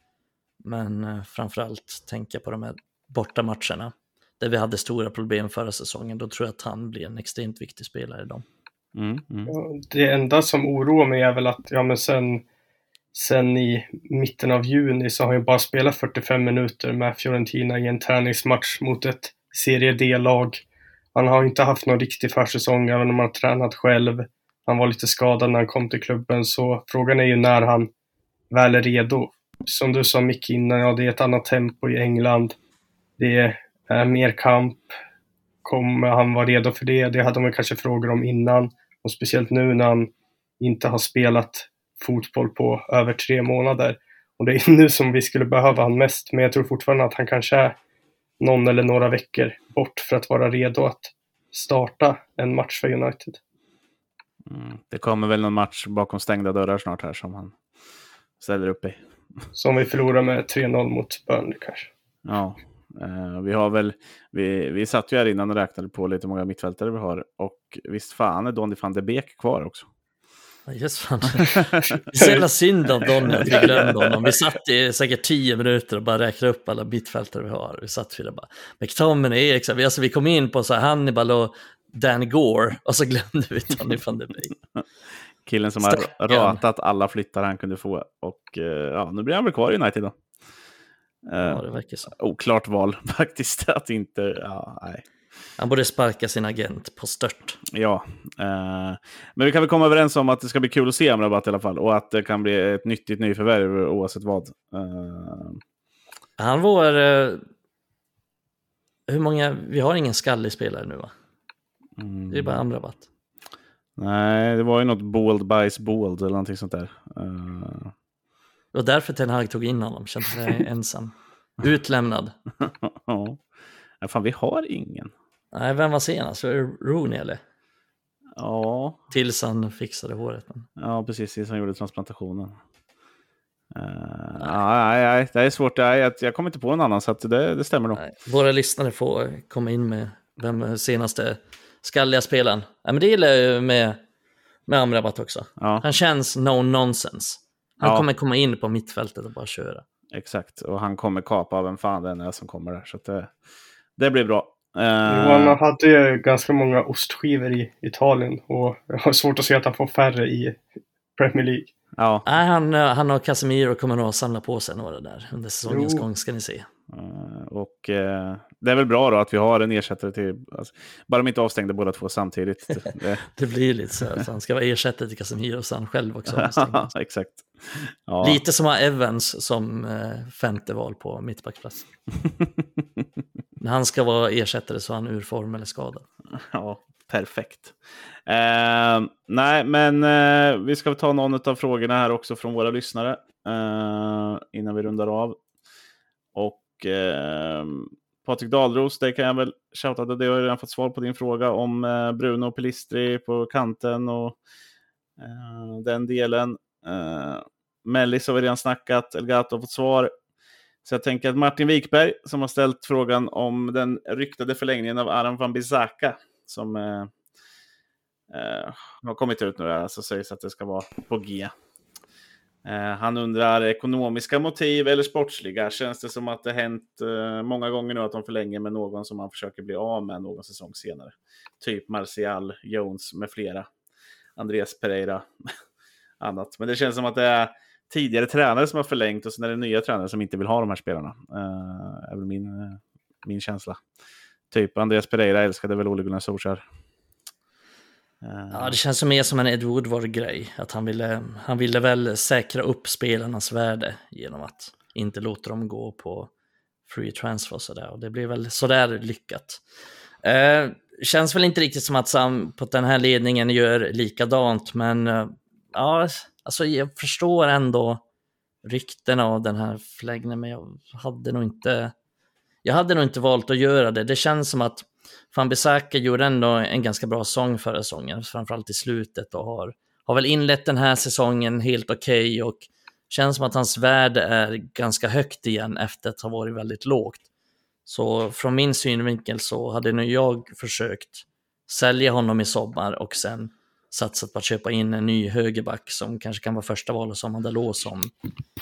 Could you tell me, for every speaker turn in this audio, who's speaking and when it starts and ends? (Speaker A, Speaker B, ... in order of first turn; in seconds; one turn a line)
Speaker A: 0.6-8.4
Speaker B: 8.9-9.5
Speaker C: 9.5-12.4
Speaker C: 13.1-20.6
Speaker C: 21.1-27.9
Speaker C: 28.5-32.5
Speaker C: 33.2-34.9
Speaker C: 35.6-47.8
Speaker C: 48.4-53.4
Speaker B: 54.5-57.5
Speaker B: 58.4-59.0
Speaker C: 59.5-61.9
Speaker B: 62.2-69.9
Speaker A: 70.7-84.5
Speaker B: 71.4-72.2
Speaker B: 73.4-73.9
Speaker B: 85.4-90.1
Speaker A: 85.8-86.6
Speaker B: 91.3-95.0
Speaker A: 91.4-92.1
Speaker A: 95.6-97.6
Speaker B: 97.7-105.6
Speaker A: 106.4-107.4
Speaker A: 109.1-111.1
Speaker B: 112.0-112.6
Speaker A: 112.3-113.0
Speaker B: 114.0-117.9
Speaker A: 118.7-122.3
Speaker B: 122.6-123.4
Speaker B: 124.0-125.1
Speaker A: 125.5-127.4
Speaker B: 128.3-129.0
Speaker A: 129.1-130.7
Speaker B: 130.8-132.6
Speaker B: 133.7-138.0
Speaker A: 137.9-144.0
Speaker A: 144.7-149.8
Speaker B: 145.6-145.8
Speaker B: 150.1-153.3
Speaker B: 154.0-155.6
Speaker C: 155.1-160.6
Speaker C: 161.2-161.7
Speaker B: 161.9-162.2
Speaker A: 162.2-166.7
Speaker C: 165.7-166.0
Speaker B: 166.9-173.2
Speaker A: 172.9-176.9
Speaker B: 176.3-178.4
Speaker A: 178.2-181.9
Speaker A: 183.6-186.0
Speaker B: 186.3-195.4
Speaker B: 196.3-204.3
Speaker B: 205.2-210.1
Speaker B: 210.8-217.1
Speaker B: 218.3-221.5
Speaker B: 222.6-233.7
Speaker B: 234.4-235.5
Speaker B: 236.2-243.8
Speaker B: 244.5-246.6
Speaker B: 248.2-248.8
Speaker A: 248.5-256.3
Speaker A: 256.9-259.6
Speaker A: 260.2-268.0
Speaker A: 268.6-271.9
Speaker A: 272.6-287.2
Speaker A: 287.9-298.1